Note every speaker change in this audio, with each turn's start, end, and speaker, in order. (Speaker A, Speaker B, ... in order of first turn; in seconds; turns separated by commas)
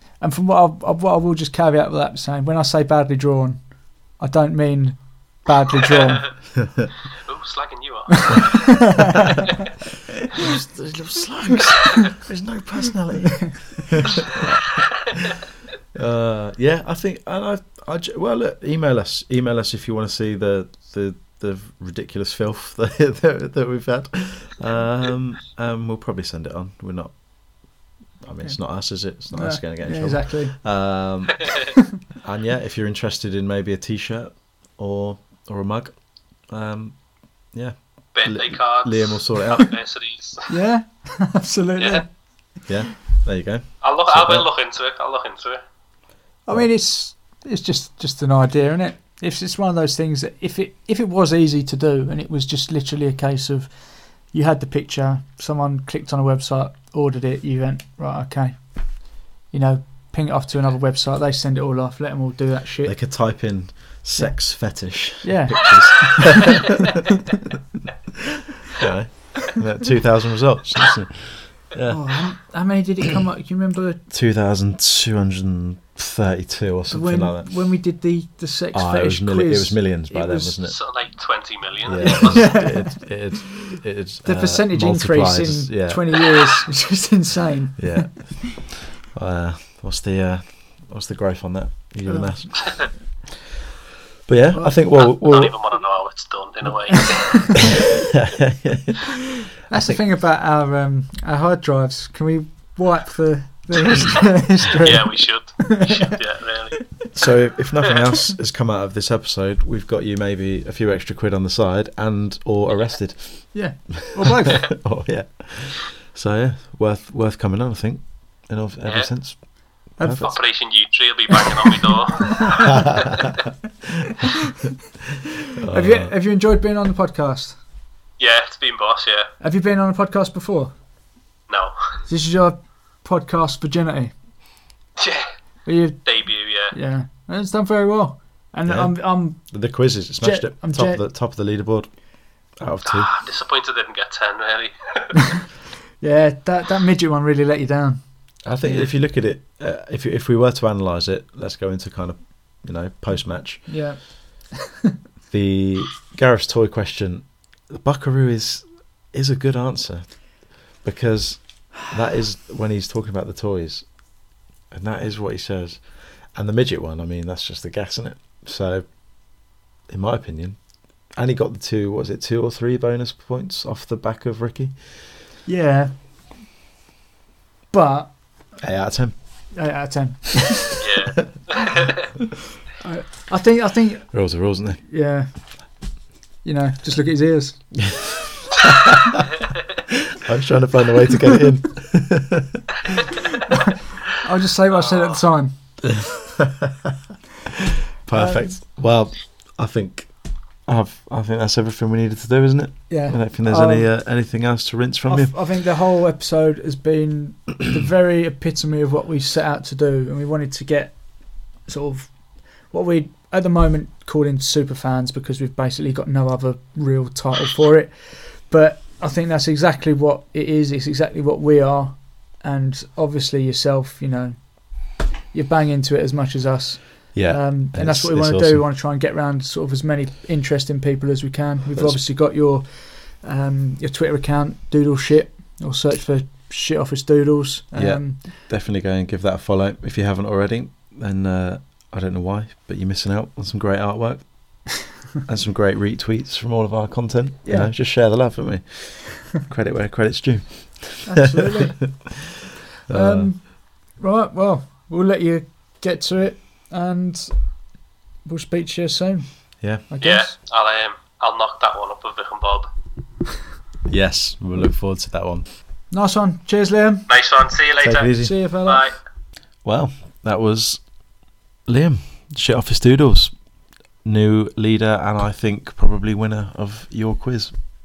Speaker A: 0.2-3.6, Speaker A: 4.2-6.3, Speaker B: 7.2-9.0, Speaker A: 8.2-9.5, Speaker C: 10.4-14.7, Speaker C: 15.9-27.2, Speaker C: 28.2-37.0, Speaker A: 29.1-30.6, Speaker C: 37.5-39.7, Speaker B: 38.1-40.5, Speaker A: 40.5-42.1, Speaker C: 42.7-44.5, Speaker B: 43.8-45.6, Speaker A: 46.5-53.8, Speaker A: 54.3-63.0, Speaker C: 62.9-66.8, Speaker A: 64.2-66.3, Speaker C: 68.7-72.0, Speaker A: 71.8-74.0, Speaker C: 74.1-77.5, Speaker A: 76.9-80.6, Speaker C: 78.7-80.8, Speaker B: 80.7-82.5, Speaker C: 81.8-86.3, Speaker A: 82.0-88.5, Speaker C: 87.8-93.0, Speaker A: 92.1-92.4, Speaker C: 94.3-95.6, Speaker B: 95.0-97.7, Speaker A: 97.1-97.6, Speaker C: 98.1-99.1, Speaker A: 99.7-106.1, Speaker C: 99.7-100.0, Speaker B: 104.8-107.3, Speaker C: 107.2-119.4, Speaker A: 113.5-114.7, Speaker B: 118.8-119.1, Speaker C: 120.0-120.4, Speaker A: 120.0-120.5, Speaker B: 120.2-123.0, Speaker C: 125.6-126.1, Speaker A: 125.7-127.6, Speaker B: 128.2-129.3, Speaker A: 129.4-130.7, Speaker B: 131.5-131.8, Speaker A: 132.1-134.1, Speaker B: 135.0-135.3, Speaker A: 135.7-139.5, Speaker B: 136.0-136.8, Speaker C: 138.7-141.9, Speaker A: 140.2-141.0, Speaker C: 142.6-143.1, Speaker B: 142.9-145.4, Speaker A: 146.0-148.0, Speaker C: 148.4-153.8, Speaker A: 153.7-154.7, Speaker C: 155.3-163.9, Speaker C: 164.7-168.9, Speaker C: 169.9-170.6, Speaker C: 171.2-175.1, Speaker A: 175.5-175.9, Speaker A: 177.7-178.2, Speaker C: 178.6-179.2, Speaker A: 179.6-180.8, Speaker B: 180.8-182.1, Speaker A: 182.8-184.2, Speaker C: 184.1-184.8, Speaker A: 184.8-185.6, Speaker A: 186.4-187.8, Speaker C: 188.6-189.2, Speaker C: 190.1-192.7, Speaker A: 193.4-195.5, Speaker C: 195.8-197.0, Speaker C: 198.0-200.1, Speaker A: 198.1-198.6, Speaker C: 200.7-205.4, Speaker A: 202.9-203.9, Speaker A: 205.1-211.0, Speaker A: 211.7-238.3, Speaker C: 227.1-228.6, Speaker C: 231.8-232.0, Speaker C: 237.8-252.2, Speaker A: 247.4-247.7, Speaker A: 251.0-252.2, Speaker C: 252.9-253.3, Speaker A: 252.9-257.4, Speaker A: 258.2-259.3, Speaker A: 259.9-260.4, Speaker B: 260.0-262.7, Speaker C: 263.9-265.5, Speaker A: 265.9-267.1, Speaker B: 267.1-269.0, Speaker C: 267.8-268.4, Speaker A: 268.2-268.9, Speaker C: 269.6-270.9, Speaker C: 271.6-273.4, Speaker C: 274.0-277.5